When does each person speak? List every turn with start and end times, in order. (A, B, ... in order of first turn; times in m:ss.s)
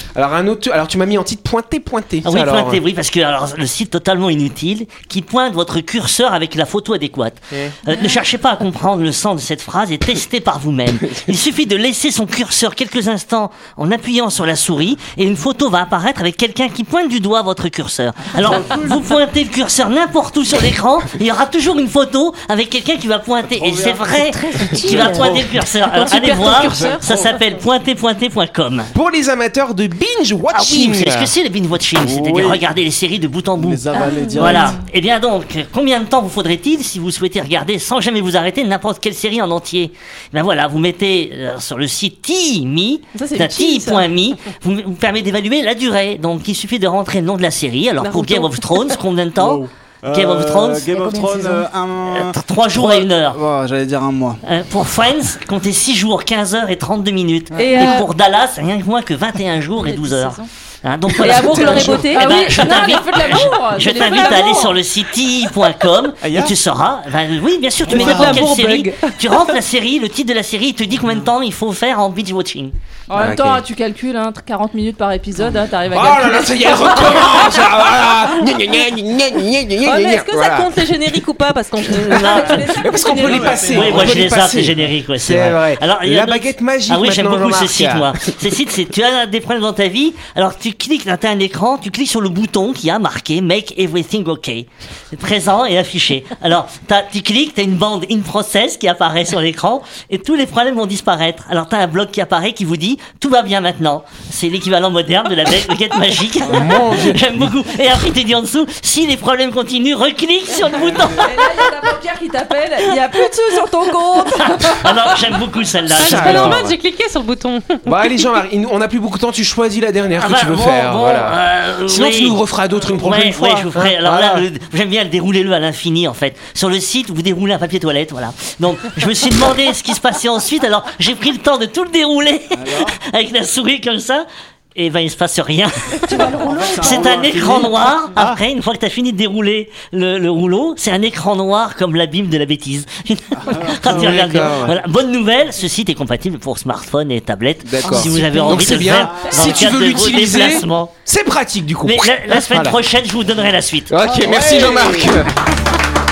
0:00.1-0:02.8 A
0:02.2-0:28.9 B
0:18.4-0:19.0 C
0:23.5-0:25.6 C
0:24.7-0:25.3 D
0:25.9-0:27.1 D
0:26.4-0:27.4 C
0:28.9-0:31.3 A
0:30.5-0:50.9 B
0:32.0-0:32.6 C
0:33.6-0:34.8 C
0:34.0-0:34.6 D
0:43.1-0:44.1 D
0:48.0-0:48.9 D
0:49.4-0:54.4 C
0:51.0-0:51.6 E
0:51.1-0:51.6 D
0:52.0-0:53.4 B
0:54.4-1:12.7 B
0:57.5-0:57.8 C
0:57.6-0:58.1 E
0:57.7-0:58.0 D
0:59.8-1:00.5 E
1:01.2-1:04.8 E
1:01.2-1:02.9 D
1:01.6-1:02.0 A
1:06.2-1:06.5 C
1:07.9-1:08.4 C
1:07.9-1:09.2 D
1:07.9-1:08.5 E
1:13.1-1:17.6 E
1:13.1-1:13.6 A
1:15.9-1:21.0 A
1:19.8-1:23.6 D
1:21.9-1:22.8 B
1:22.1-1:23.8 E
1:22.5-1:28.4 A
1:23.2-1:24.3 C
1:23.7-1:51.7 B
1:46.4-1:47.2 A
1:51.1-1:54.9 E
1:54.4-1:56.7 B
1:54.5-1:54.8 D
1:55.9-1:56.7 A
1:56.0-1:58.1 D
1:57.8-2:04.4 A
2:00.2-2:30.9 B
2:12.5-2:13.0 C
2:16.1-2:17.5 E
2:16.2-2:18.4 C
2:23.4-2:24.7 C
2:23.8-2:24.8 A
2:27.6-2:32.8 A
2:28.0-2:29.6 C
2:31.8-2:34.0 B
2:33.9-2:35.3 A
2:34.0-2:35.2 C